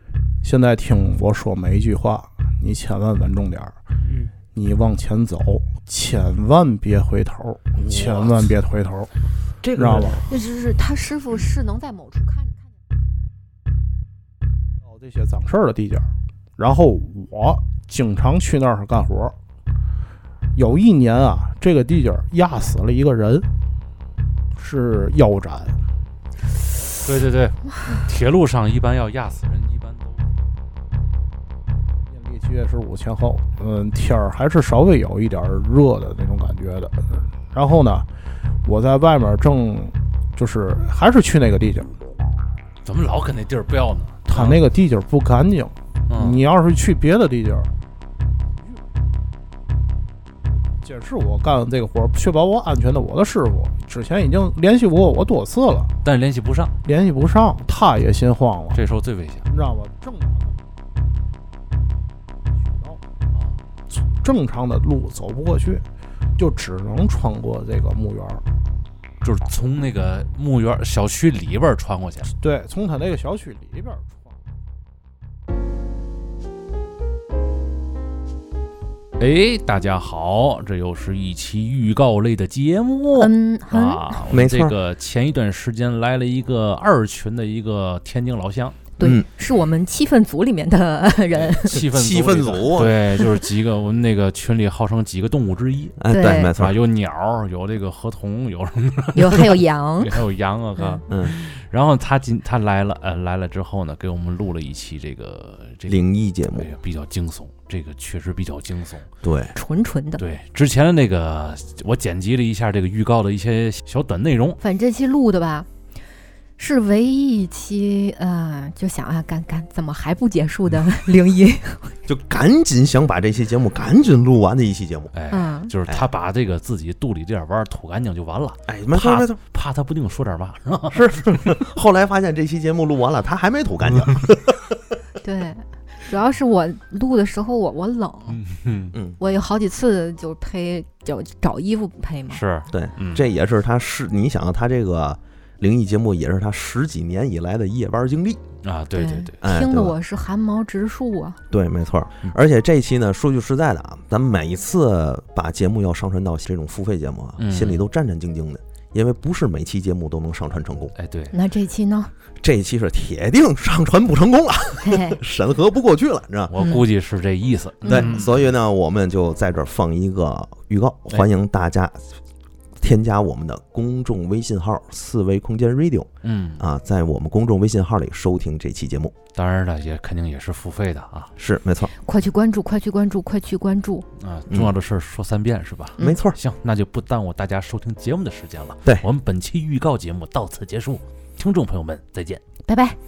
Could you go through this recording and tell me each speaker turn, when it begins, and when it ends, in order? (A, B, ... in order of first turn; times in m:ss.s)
0:00.4-0:03.8 A
0:04.5-0:09.1 A
0:09.7-0:10.3 A
0:10.3-0:12.6 B
0:14.8-0:16.1 A
0:16.6-0:19.4 A
0:20.6-0:23.5 A
0:24.6-0:25.8 A
0:27.0-0:30.3 C
0:32.1-0:38.1 A
0:38.6-0:42.0 A
0:42.8-0:44.6 C
0:44.3-0:47.7 A
0:46.1-0:46.4 C
0:50.8-0:55.9 A
0:56.0-0:56.8 C
0:56.8-0:58.8 A
0:58.7-0:59.5 C
0:59.5-1:00.6 A
1:02.6-1:03.0 A
1:03.3-1:03.6 C
1:03.9-1:05.8 A
1:06.4-1:08.4 A
1:09.2-1:12.3 C
1:12.4-1:14.4 A
1:19.2-1:28.8 C
1:23.1-1:24.1 B
1:24.3-1:24.8 D
1:29.0-1:31.8 B
1:29.0-1:29.3 D
1:31.6-1:36.0 C
1:31.9-1:33.2 D
1:36.0-1:36.8 D
1:36.1-1:36.5 B
1:36.5-1:49.1 C
1:39.2-1:40.2 B
1:40.8-1:41.0 B
1:41.1-1:41.4 D
1:45.9-1:46.7 D
1:49.2-1:49.5 D
1:49.5-1:50.2 B
1:50.2-1:54.6 C
1:54.6-1:55.7 B
1:56.6-2:02.0 B
2:02.1-2:05.1 D
2:05.1-2:11.0 C
2:05.3-2:05.7 B
2:08.7-2:09.4 D
2:10.9-2:14.8 D
2:15.2-2:18.4 B
2:18.3-2:19.0 C
2:19.2-2:22.4 B
2:22.3-2:23.2 C
2:22.7-2:28.4 D
2:28.6-2:29.4 C
2:28.9-2:31.4 B
2:29.4-2:30.0 D
2:31.5-2:40.9 D
2:37.4-2:37.8 C
2:41.0-2:41.4 C
2:41.3-2:42.1 B
2:42.4-2:46.6 D
2:44.8-2:45.2 B
2:46.5-2:48.5 C
2:47.9-2:48.2 B
2:47.9-2:52.1 D
2:52.8-2:59.1 D
2:56.2-2:56.6 C
2:59.3-3:01.3 C
3:01.4-3:01.9 D
3:02.0-3:04.1 B
3:04.2-3:12.4 C
3:06.0-3:06.4 D
3:12.7-3:13.0 B